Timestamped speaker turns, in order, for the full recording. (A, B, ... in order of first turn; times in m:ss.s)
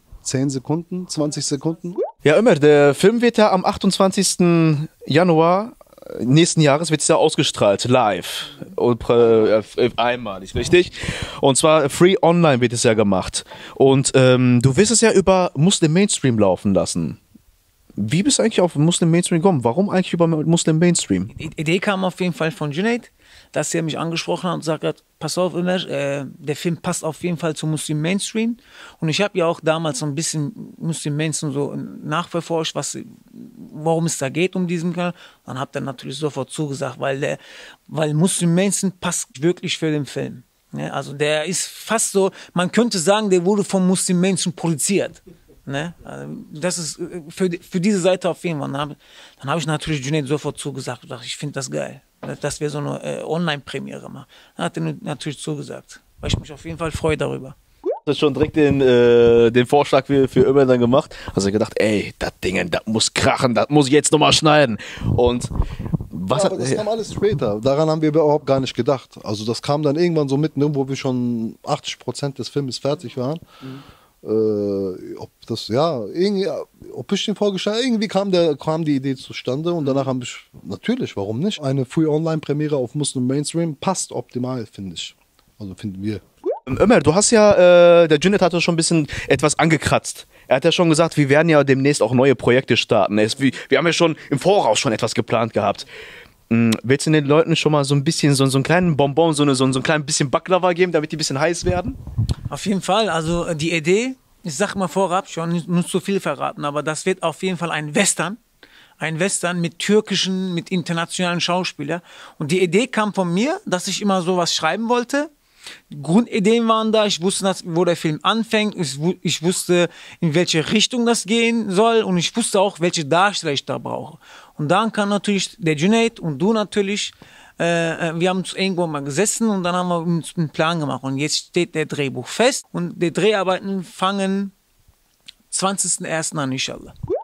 0:00.2-0:02.0 A
0:02.2-0:17.2 B
0:18.0-0:21.3 B
0:21.3-0:57.6 C
0:58.1-1:05.5 B
1:06.1-1:06.8 B
1:06.3-1:13.4 A
1:14.2-1:26.2 A
1:26.7-1:35.9 B
1:36.5-1:42.0 B
1:42.5-1:48.4 C
1:49.0-1:55.3 C
1:55.9-2:14.5 C
2:15.5-2:16.9 C